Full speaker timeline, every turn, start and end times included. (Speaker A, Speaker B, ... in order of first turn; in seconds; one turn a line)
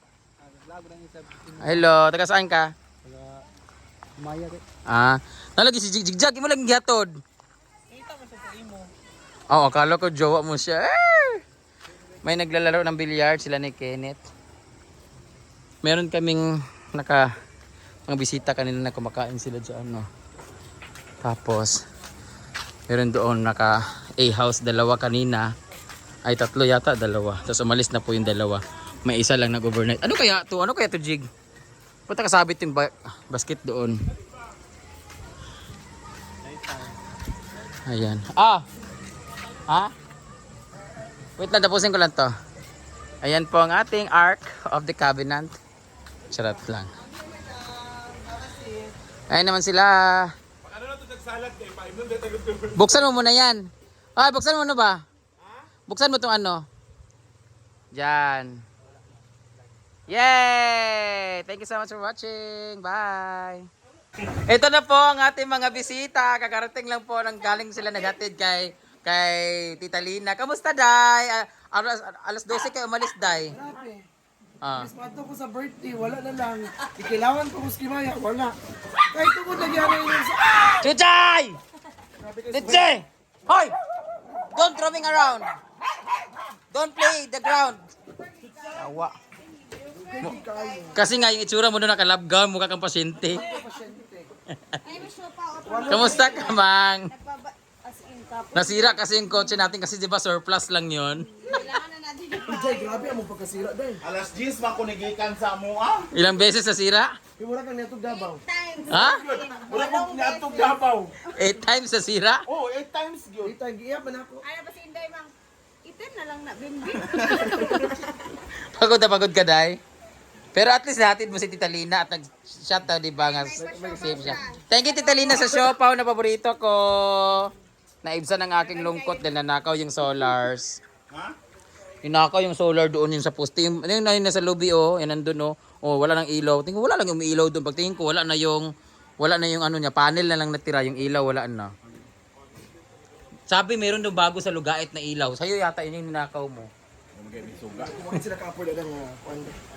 Speaker A: 0.5-1.6
Speaker B: 1.5-2.7
Speaker A: 4.2-4.6
Speaker B: 4.8-7.2
Speaker A: 7.9-8.9
Speaker B: 9.5-11.4
Speaker B: 12.2-14.2
Speaker B: 15.8-17.3
Speaker B: 18.1-20.1
Speaker B: 21.2-21.8
Speaker B: 22.9-25.5
Speaker B: 26.2-31.3
Speaker B: 32.1-34.0
Speaker B: 37.9-38.6
Speaker B: 39.7-39.9
Speaker B: 41.4-42.3
Speaker B: 43.2-45.5
Speaker B: 46.3-46.9
Speaker B: 49.3-50.3
Speaker B: 52.6-55.0
Speaker B: 55.9-56.6
Speaker B: 57.9-58.6
Speaker B: 60.1-63.7
Speaker B: 64.3-73.5
Speaker C: 73.5-74.0
Speaker B: 74.6-74.9
Speaker C: 74.8-80.8
Speaker B: 80.6-81.6
Speaker C: 82.2-82.9
Speaker B: 82.5-83.8
Speaker B: 84.4-85.5
Speaker B: 86.7-87.8
Speaker B: 88.7-89.2
Speaker D: 89.6-91.0
Speaker C: 90.0-91.0
Speaker B: 90.9-93.6
Speaker C: 93.3-94.3
Speaker D: 94.8-99.0
Speaker C: 95.7-96.4
Speaker B: 95.9-97.1
Speaker B: 98.5-101.3
Speaker D: 101.4-103.1
Speaker C: 102.5-104.0
Speaker E: 104.0-106.1
Speaker B: 106.1-107.1
Speaker C: 107.4-108.4
Speaker D: 108.3-110.7
Speaker B: 108.9-109.2
Speaker E: 109.0-111.1
Speaker C: 109.9-110.7
Speaker B: 111.2-112.4
Speaker E: 112.5-113.5
Speaker C: 113.4-114.4
Speaker D: 114.4-115.3
Speaker D: 115.8-118.2
Speaker B: 118.2-119.8
Speaker B: 120.5-127.5
Speaker D: 123.3-124.6
Speaker C: 123.6-124.4
Speaker B: 128.0-130.8
Speaker B: 132.0-141.7
Speaker B: 143.5-146.7
Speaker E: 147.3-147.8
Speaker C: 147.7-149.6